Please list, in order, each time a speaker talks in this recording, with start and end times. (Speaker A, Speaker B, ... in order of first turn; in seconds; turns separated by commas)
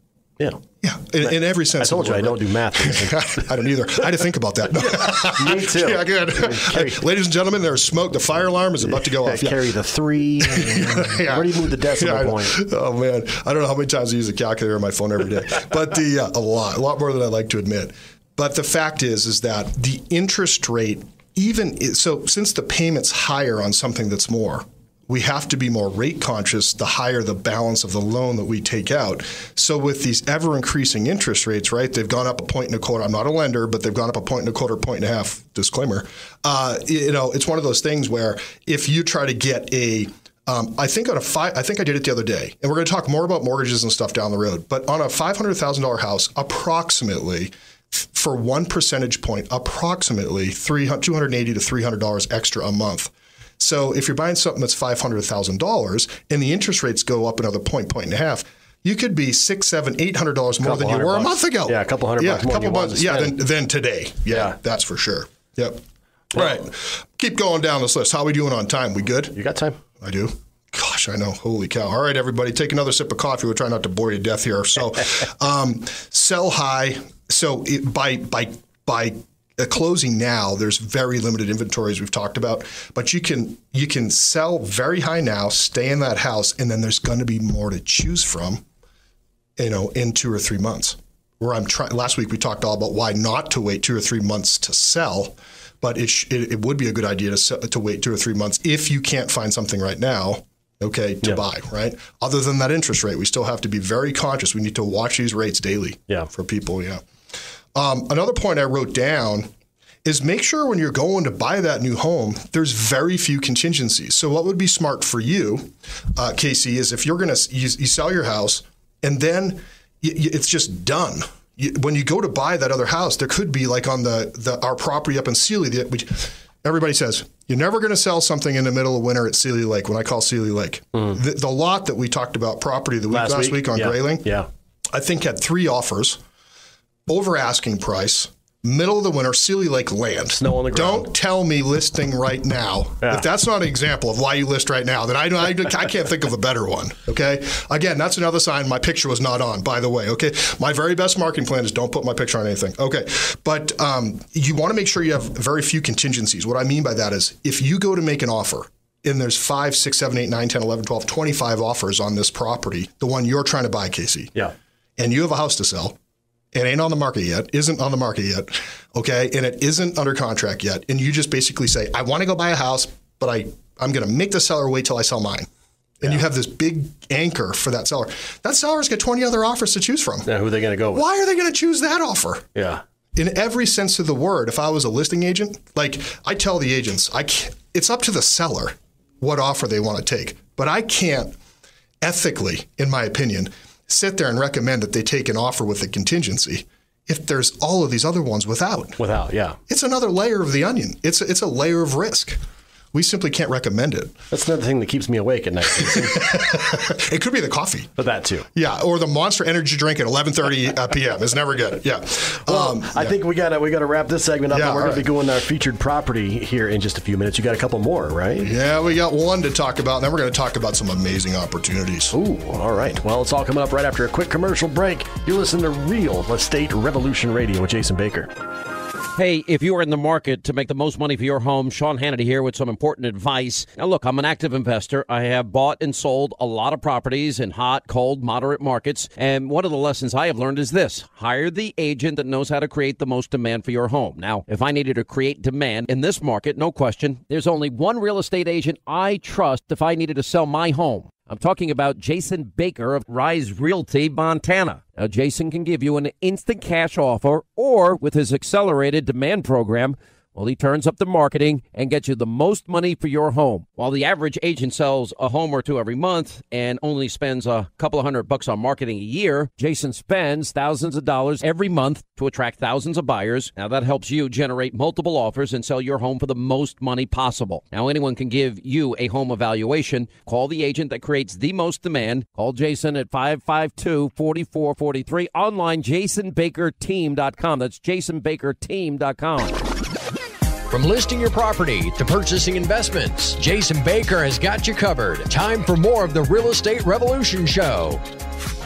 Speaker A: 0.8-9.7, Speaker B: 1.2-3.5, Speaker B: 4.8-7.0, Speaker B: 9.0-12.6, Speaker A: 10.4-69.4, Speaker B: 60.6-63.4, Speaker B: 64.3-64.5, Speaker B: 69.3-69.8, Speaker A: 70.0-88.6, Speaker A: 89.6-107.0, Speaker A: 107.7-109.5, Speaker A: 110.0-134.3, Speaker B: 133.1-134.5, Speaker A: 134.9-136.2, Speaker A: 137.1-164.3, Speaker B: 140.4-141.1, Speaker A: 165.0-166.0, Speaker A: 166.5-175.5, Speaker A: 176.0-180.3, Speaker B: 180.2-181.0, Speaker A: 180.9-182.5, Speaker B: 182.5-182.8, Speaker A: 183.2-191.3, Speaker A: 192.0-199.0, Speaker B: 199.0-199.6, Speaker A: 199.7-202.4, Speaker A: 202.9-204.2, Speaker B: 204.3-206.4, Speaker A: 205.8-207.9, Speaker B: 208.0-208.4, Speaker A: 208.5-213.2, Speaker B: 212.4-218.5, Speaker A: 214.5-215.1, Speaker A: 218.4-222.1, Speaker B: 222.1-228.3, Speaker C: 229.2-289.5, Speaker D: 290.7-298.0